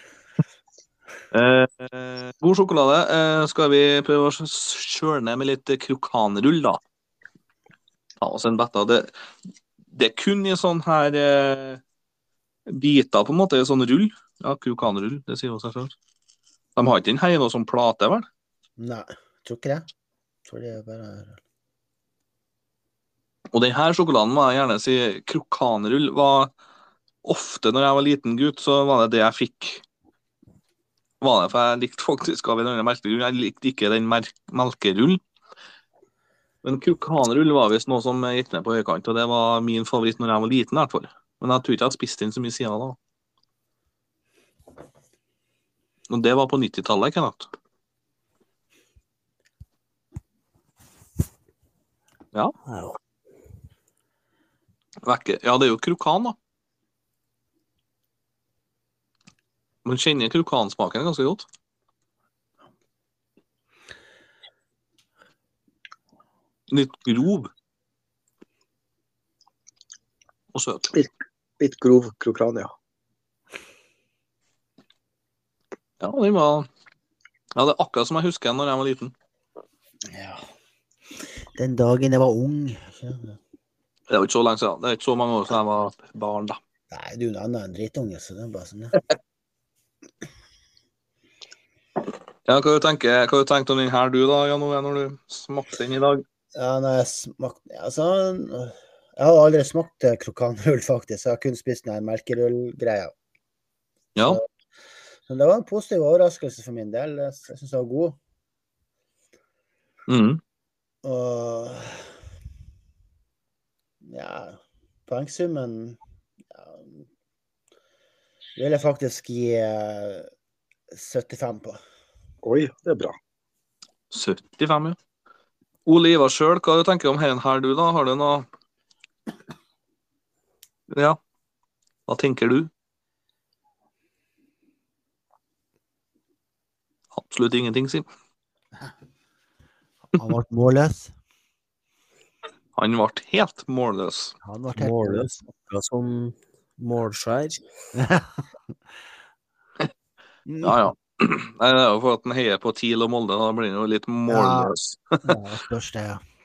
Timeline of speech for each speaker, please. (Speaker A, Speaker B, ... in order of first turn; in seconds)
Speaker A: 1.3-6.8, 8.2-9.1, 9.9-11.8, 12.7-15.9, 16.8-18.2, 23.5-26.5, 27.2-29.8, 31.2-35.2, 36.6-43.0, 46.1-47.5, 55.0-56.4, 59.8-61.5, 66.7-67.5, 70.5-70.9, 76.0-76.7, 77.5-79.1, 84.1-86.6, 92.5-96.2, 104.2-104.4, 110.1-110.4, 124.1-125.0, 125.8-128.4, 130.9-131.2, 132.1-132.7, 137.1-138.1, 142.8-144.3, 150.6-155.3
Speaker B: 18.8-19.9, 20.4-21.4, 80.1-80.4, 81.5-83.4, 86.9-89.0, 96.5-103.1, 105.3-108.2, 111.0-112.1, 114.0-116.0, 116.5-117.0, 118.5-120.3, 120.9-121.8, 140.1-141.1, 144.4-145.4, 147.9-148.4, 150.4-150.9, 154.3-156.2
Speaker C: 52.6-53.0, 144.8-147.6
Speaker D: 71.6-72.7, 122.4-123.2